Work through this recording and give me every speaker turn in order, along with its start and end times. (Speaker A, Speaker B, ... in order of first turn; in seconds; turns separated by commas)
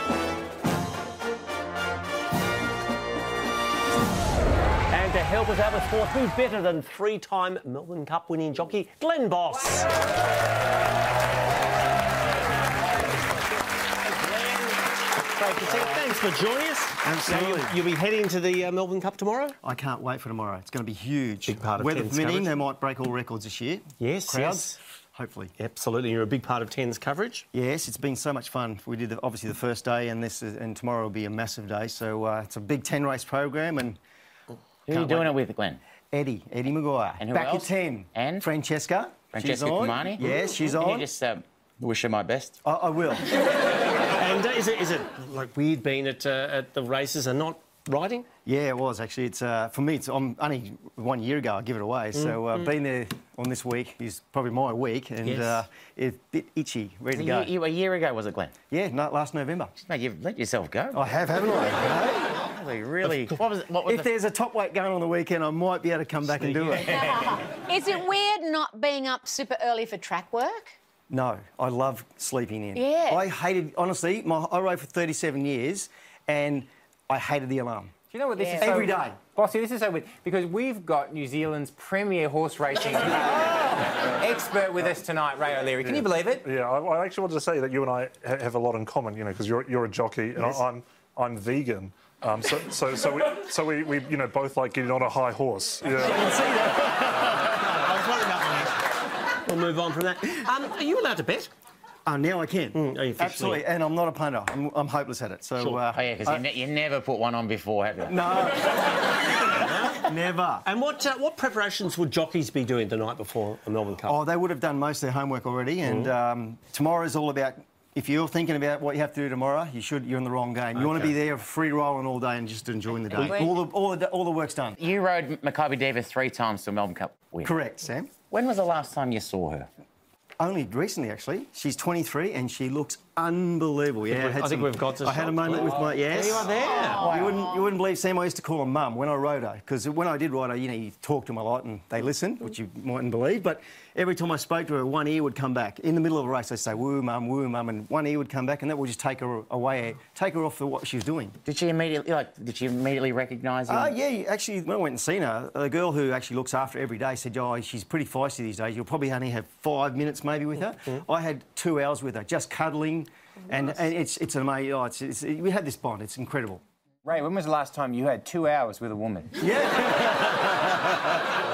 Speaker A: 4.9-9.9, Speaker A: 13.9-19.6, Speaker B: 17.0-17.7, Speaker B: 19.6-25.5, Speaker A: 21.4-22.6, Speaker A: 24.0-24.8, Speaker A: 25.6-27.5, Speaker B: 27.5-34.0, Speaker C: 34.9-35.8, Speaker B: 34.9-35.4, Speaker B: 36.1-41.1, Speaker C: 37.2-38.5, Speaker C: 39.3-42.6, Speaker B: 42.6-43.3, Speaker A: 44.1-48.3, Speaker B: 48.4-57.5, Speaker A: 52.1-52.7, Speaker A: 55.2-55.6, Speaker C: 57.1-58.5, Speaker B: 58.7-59.7, Speaker C: 59.8-61.1, Speaker B: 60.9-62.3, Speaker C: 62.4-64.1, Speaker B: 63.0-66.9, Speaker D: 66.6-67.1, Speaker E: 66.8-70.7, Speaker B: 71.1-78.0, Speaker E: 72.7-73.2, Speaker D: 78.1-86.4, Speaker E: 78.3-79.0, Speaker B: 78.6-79.2, Speaker B: 83.1-83.9, Speaker F: 85.8-96.3, Speaker A: 96.0-98.8, Speaker B: 96.1-97.4, Speaker A: 99.4-101.5, Speaker B: 102.0-106.5, Speaker A: 102.7-103.7, Speaker A: 105.6-105.8, Speaker C: 105.9-108.2, Speaker B: 108.1-108.8, Speaker B: 109.3-110.6, Speaker A: 109.5-110.1, Speaker A: 110.6-114.2, Speaker B: 114.0-124.8, Speaker A: 115.8-116.1, Speaker D: 120.8-121.1, Speaker C: 123.1-123.6, Speaker C: 124.8-127.5, Speaker B: 127.4-128.1, Speaker C: 128.3-129.7, Speaker B: 130.4-151.4, Speaker A: 134.1-137.1, Speaker D: 135.6-136.2, Speaker E: 136.5-137.7, Speaker C: 137.0-137.4, Speaker C: 151.4-153.9, Speaker B: 153.7-166.6, Speaker D: 167.0-169.3, Speaker B: 169.4-171.2